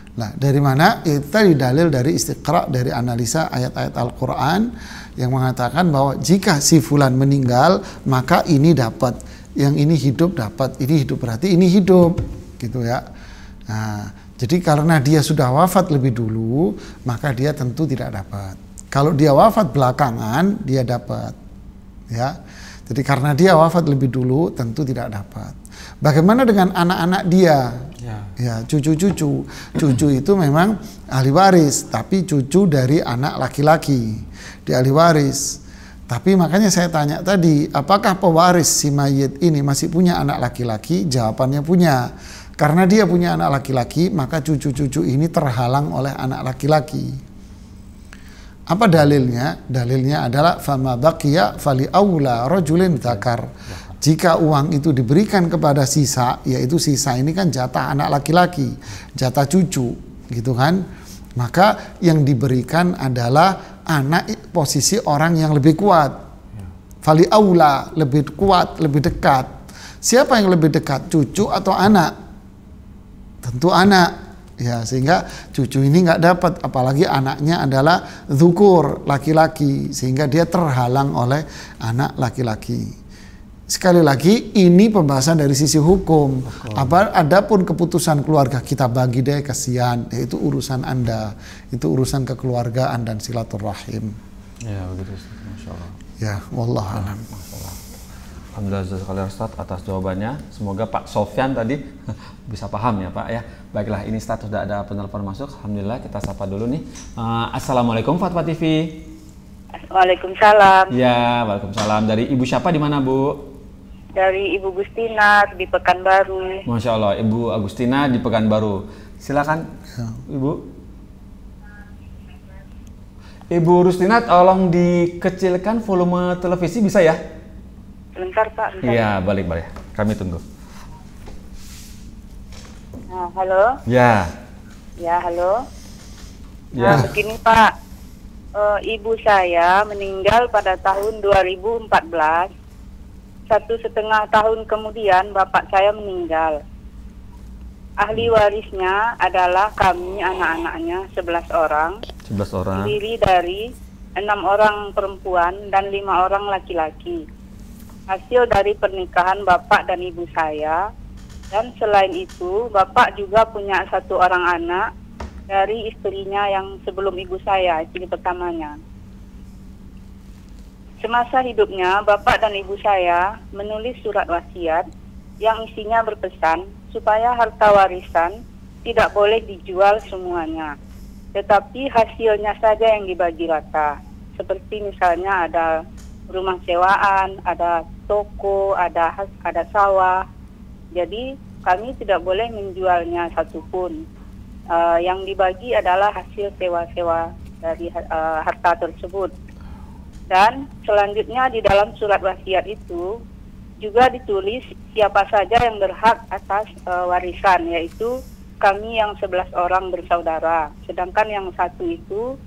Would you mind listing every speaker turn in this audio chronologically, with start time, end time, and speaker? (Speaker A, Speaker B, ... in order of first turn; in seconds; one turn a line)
Speaker A: 0.2-13.0
Speaker A: 13.7-21.4
Speaker A: 22.1-22.4
Speaker A: 22.9-27.9
Speaker B: 28.0-28.3
Speaker A: 28.4-47.2
Speaker A: 48.7-60.8
Speaker B: 52.9-53.9
Speaker A: 61.4-66.2
Speaker A: 67.0-72.1
Speaker A: 73.4-82.9
Speaker A: 83.7-94.2
Speaker B: 86.5-87.0
Speaker B: 94.6-95.9
Speaker A: 96.2-97.2
Speaker B: 96.9-97.8
Speaker B: 98.5-109.0
Speaker C: 109.9-110.9
Speaker B: 110.9-113.4
Speaker C: 114.2-116.6
Speaker B: 116.7-119.7
Speaker B: 120.3-120.6
Speaker B: 123.5-127.2
Speaker C: 128.2-129.1
Speaker B: 128.8-130.4
Speaker C: 133.1-133.8
Speaker B: 133.9-134.3
Speaker C: 135.0-135.6
Speaker B: 136.8-137.1
Speaker C: 136.8-137.7
Speaker C: 138.5-142.5
Speaker C: 143.5-146.6
Speaker C: 148.0-151.9
Speaker B: 152.3-152.9
Speaker C: 152.7-153.6
Speaker C: 154.2-157.2
Speaker C: 158.1-160.8
Speaker C: 161.5-164.8
Speaker C: 165.5-168.8
Speaker C: 171.0-174.8
Speaker C: 175.4-180.7
Speaker C: 181.3-185.7
Speaker C: 186.3-190.2
Speaker C: 190.9-194.0
Speaker C: 194.7-199.3
Speaker C: 200.3-203.0
Speaker C: 203.8-212.2